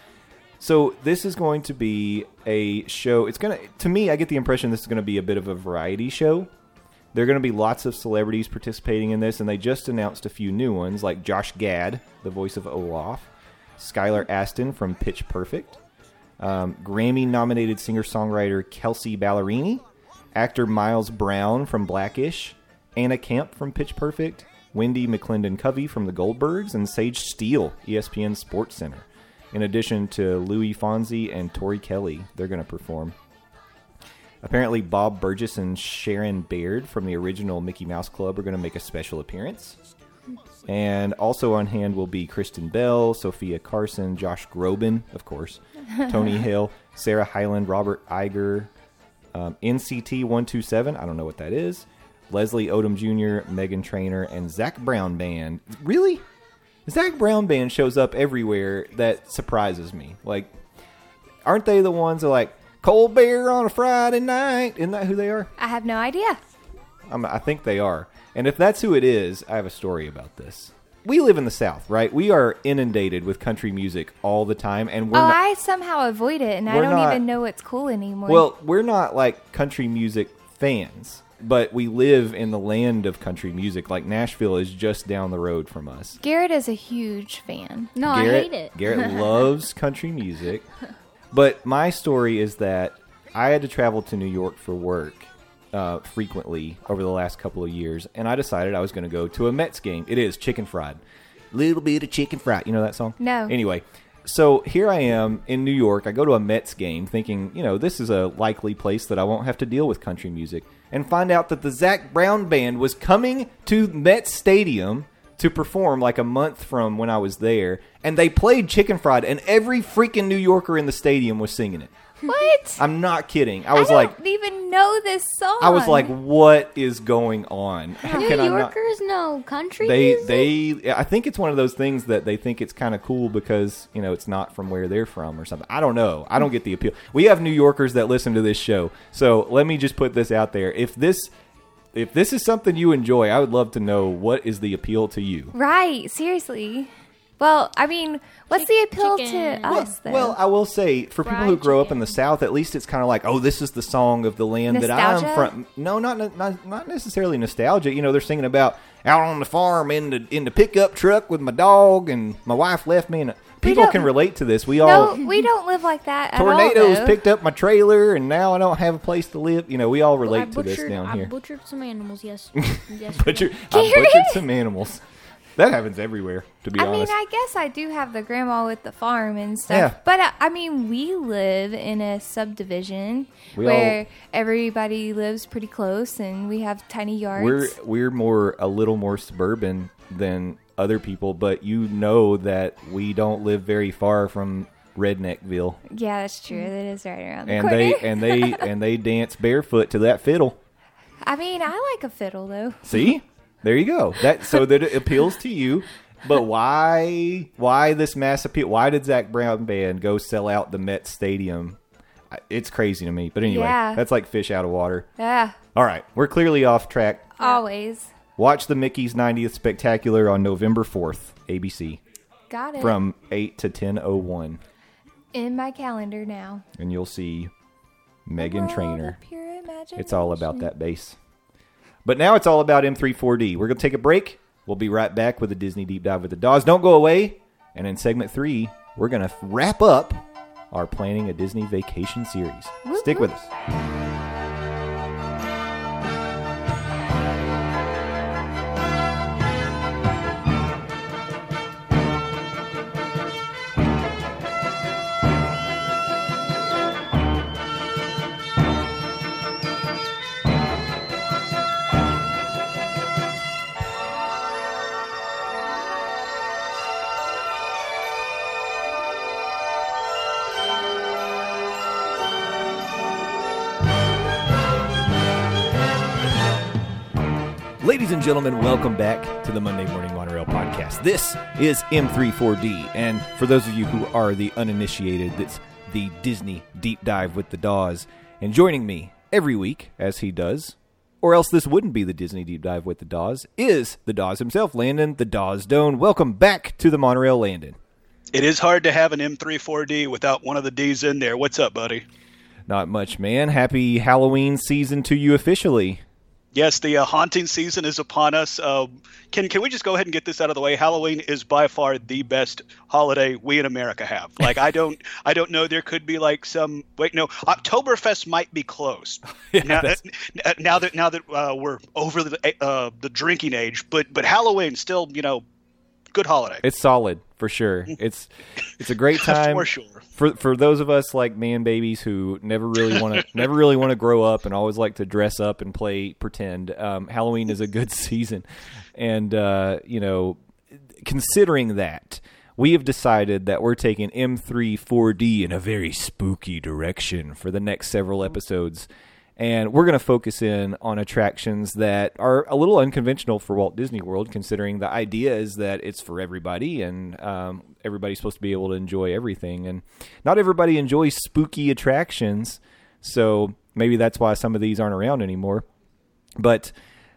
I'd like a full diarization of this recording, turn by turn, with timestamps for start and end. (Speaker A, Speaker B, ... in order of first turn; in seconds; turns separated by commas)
Speaker A: 0.6-6.5, Speaker A: 7.1-15.8, Speaker A: 16.4-19.8, Speaker A: 20.3-33.1, Speaker A: 34.4-39.8, Speaker A: 40.7-48.7, Speaker A: 49.3-56.2, Speaker A: 56.9-60.6, Speaker A: 61.4-65.5, Speaker B: 65.6-66.4, Speaker A: 67.1-75.4, Speaker B: 75.1-78.5, Speaker A: 76.7-77.2, Speaker A: 78.3-86.2, Speaker B: 86.2-87.9, Speaker C: 87.9-88.8, Speaker A: 88.0-90.7, Speaker A: 91.3-101.0, Speaker A: 101.5-121.9, Speaker B: 103.2-103.5, Speaker C: 122.2-122.5, Speaker B: 122.3-122.8, Speaker A: 122.8-124.2, Speaker B: 123.7-126.1, Speaker A: 125.6-128.7, Speaker B: 128.1-128.3, Speaker C: 128.1-130.5, Speaker A: 129.8-141.3, Speaker A: 141.9-145.5, Speaker B: 145.5-150.4, Speaker C: 148.5-149.8, Speaker A: 149.6-165.2, Speaker C: 151.2-152.2, Speaker B: 154.7-155.5, Speaker B: 163.6-164.1, Speaker B: 164.8-167.2, Speaker A: 166.3-171.3, Speaker C: 170.2-173.5, Speaker A: 172.6-175.0, Speaker B: 173.7-174.4, Speaker A: 175.6-177.1, Speaker B: 176.8-187.7, Speaker A: 179.7-180.0, Speaker A: 183.5-184.0, Speaker A: 187.3-195.8, Speaker B: 195.9-198.7, Speaker A: 197.4-200.6, Speaker B: 201.2-203.1, Speaker A: 202.8-215.1, Speaker B: 213.4-214.0, Speaker B: 215.2-215.6, Speaker A: 215.7-217.5, Speaker B: 217.4-218.1, Speaker A: 218.4-222.0, Speaker B: 222.5-223.0, Speaker A: 222.8-224.6, Speaker B: 225.3-226.7, Speaker A: 226.8-227.5, Speaker A: 228.2-229.2, Speaker B: 228.4-230.7, Speaker A: 230.0-231.2, Speaker A: 232.0-243.5, Speaker B: 242.8-243.3, Speaker A: 277.8-297.8, Speaker D: 298.3-302.0, Speaker A: 302.7-306.0, Speaker D: 306.5-325.4, Speaker A: 319.5-320.0, Speaker D: 326.1-326.6, Speaker A: 326.6-365.6, Speaker D: 329.2-330.0, Speaker A: 366.4-366.7